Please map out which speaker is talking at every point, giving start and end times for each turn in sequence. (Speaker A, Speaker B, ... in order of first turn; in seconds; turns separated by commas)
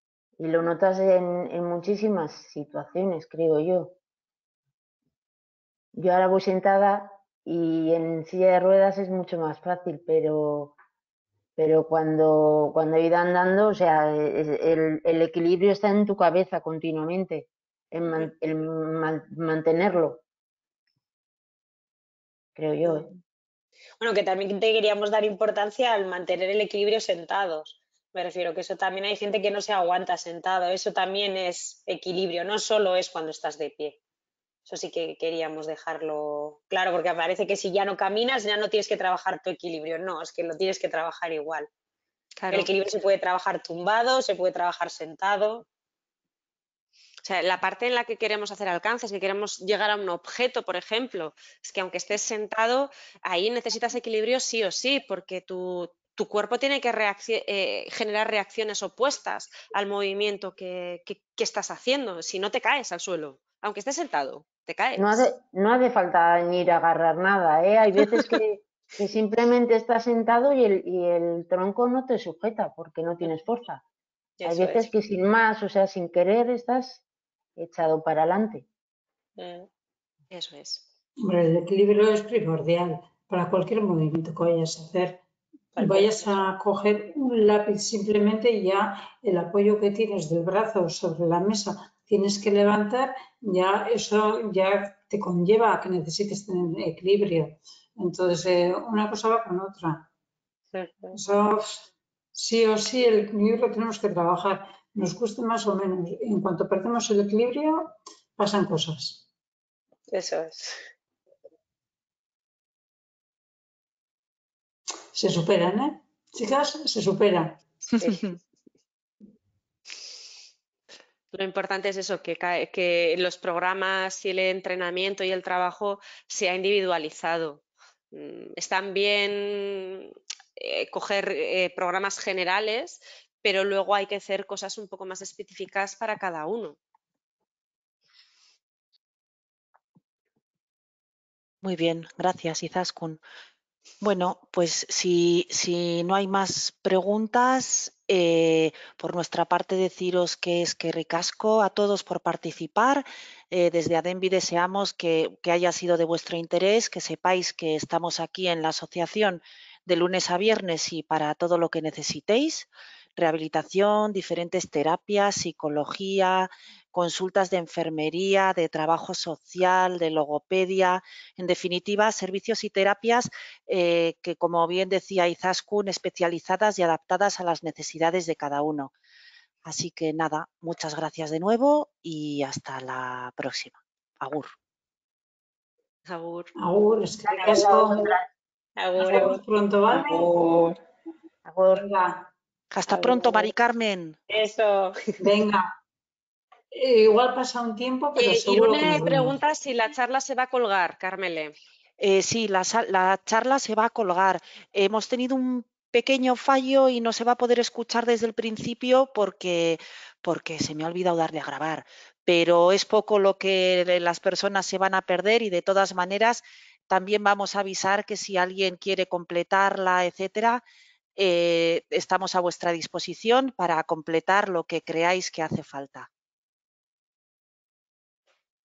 Speaker A: 0.4-4.0, Speaker A: 5.9-10.8, Speaker A: 11.6-20.2, Speaker A: 22.6-23.1, Speaker B: 24.0-34.0, Speaker B: 34.7-41.7, Speaker C: 42.4-42.7, Speaker B: 42.5-45.7, Speaker C: 47.2-65.3, Speaker A: 65.0-73.8, Speaker B: 74.4-74.9, Speaker A: 74.4-77.0, Speaker A: 77.6-78.7, Speaker B: 79.4-79.7, Speaker C: 80.3-80.8, Speaker D: 81.2-85.2, Speaker B: 85.7-86.4, Speaker D: 85.8-100.1, Speaker B: 100.7-101.2, Speaker D: 101.1-109.2, Speaker B: 110.1-110.8, Speaker D: 115.1-117.6, Speaker B: 118.0-118.3, Speaker C: 121.3-136.8, Speaker E: 141.6-143.2, Speaker E: 144.0-178.9, Speaker E: 179.7-184.5, Speaker C: 186.1-186.5, Speaker D: 186.6-188.2, Speaker B: 187.3-188.2, Speaker A: 187.4-188.2, Speaker B: 188.8-189.4, Speaker D: 189.0-190.7, Speaker A: 191.4-191.8, Speaker D: 191.8-192.3, Speaker E: 192.7-194.2, Speaker B: 192.9-193.5, Speaker B: 194.3-195.1, Speaker D: 195.2-195.8, Speaker D: 196.7-199.4, Speaker C: 198.2-201.6, Speaker E: 202.0-220.6, Speaker E: 221.2-226.1